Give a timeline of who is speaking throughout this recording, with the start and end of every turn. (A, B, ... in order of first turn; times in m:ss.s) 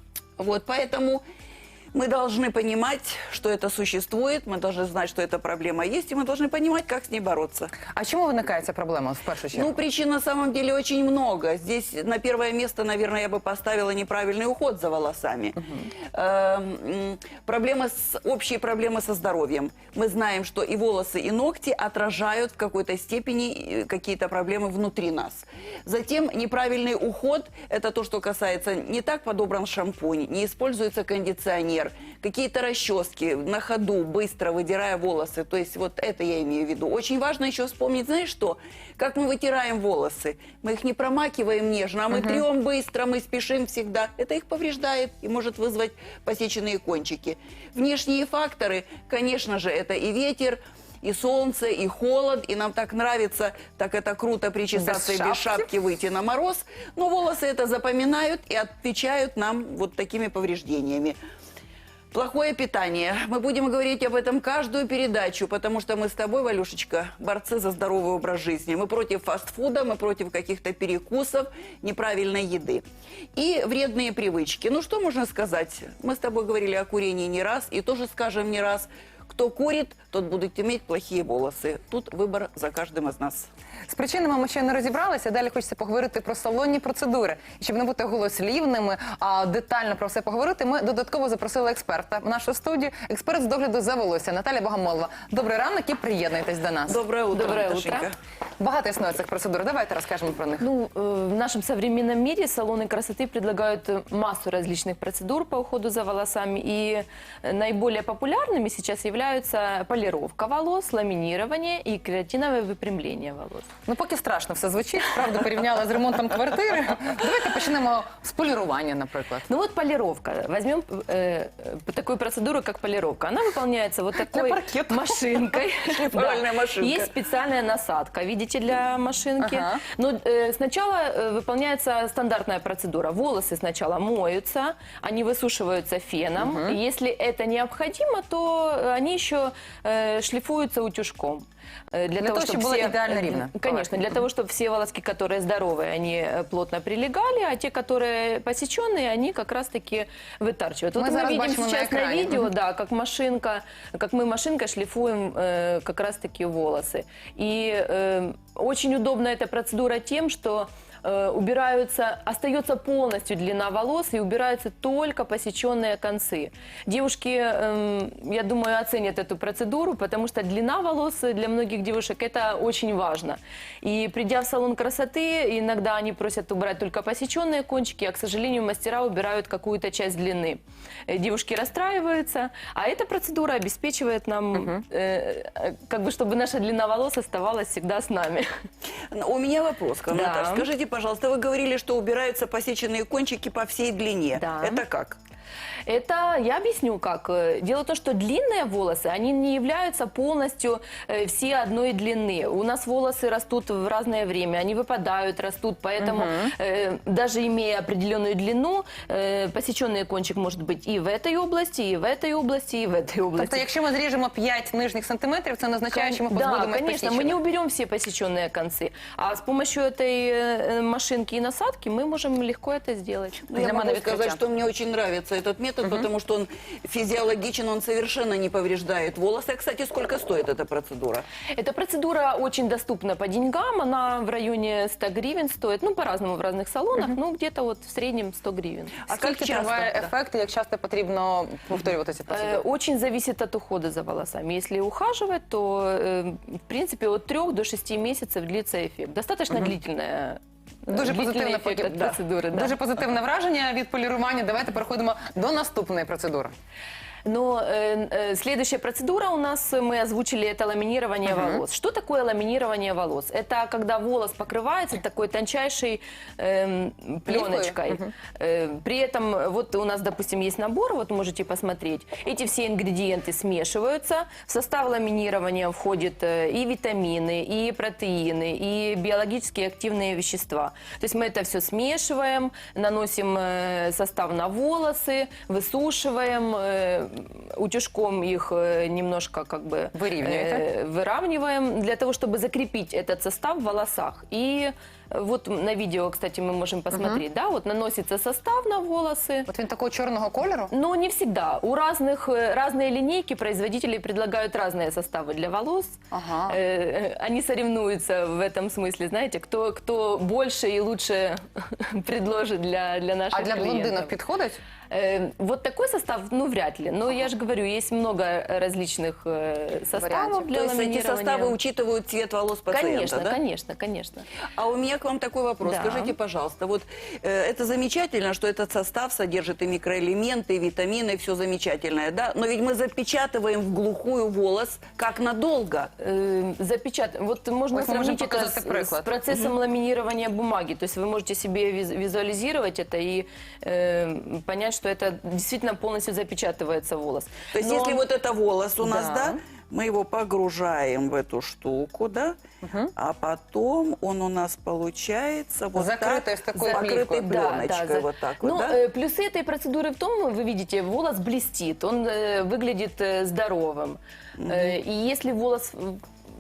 0:00.4-0:01.2 A
0:01.9-0:07.8 A
0:07.9-0:09.7 B
0:09.5-1:01.2 A
0:15.6-0:15.8 B
0:42.1-0:42.4 B
0:54.7-0:55.7 B
1:02.1-1:12.8 A
1:13.4-1:23.5 A
1:23.9-1:37.0 B
1:36.9-1:38.1 A
1:37.3-1:38.1 C
1:38.6-1:40.6 B
1:40.6-1:53.7 C
1:53.9-1:59.5 B
1:59.5-3:08.5 C
2:04.2-2:05.6 B
2:05.8-2:07.1 A
2:09.4-2:09.8 B
2:16.4-2:16.8 B
2:22.2-2:24.2 B
2:31.0-2:32.5 B
3:04.6-3:04.8 B
3:09.1-3:15.2 A
3:10.1-3:10.7 C
3:14.3-3:14.8 C
3:15.8-3:33.6 C
3:26.0-3:26.5 B
3:33.4-3:37.4 B
3:35.9-3:43.5 C
3:43.5-3:51.2 A
3:43.5-3:44.4 B
3:51.5-3:59.0 C
3:59.1-4:00.1 A
3:59.1-4:02.6 B
4:02.3-4:12.8 C
4:10.9-4:16.5 B
4:17.2-4:59.5 C
4:21.2-4:21.6 B
4:27.3-4:28.1 B
4:49.9-4:50.6 B
4:56.9-4:57.2 B
4:59.5-5:00.7 B
5:00.7-5:14.2 C
5:06.1-5:06.6 B
5:13.3-5:14.6 B
5:14.9-5:21.6 C
5:20.0-5:20.5 B
5:20.5-5:23.4 A
5:22.7-5:24.3 C
5:24.6-5:35.9 A
5:25.6-5:26.2 C
5:36.0-5:48.0 C
5:37.7-5:39.1 B
5:39.3-5:39.5 A
5:47.5-5:52.4 A
5:48.8-5:49.3 B
5:52.6-5:52.9 B
5:53.0-5:58.8 A
5:55.7-5:57.3 B
5:56.6-6:06.0 C
6:04.4-6:04.8 A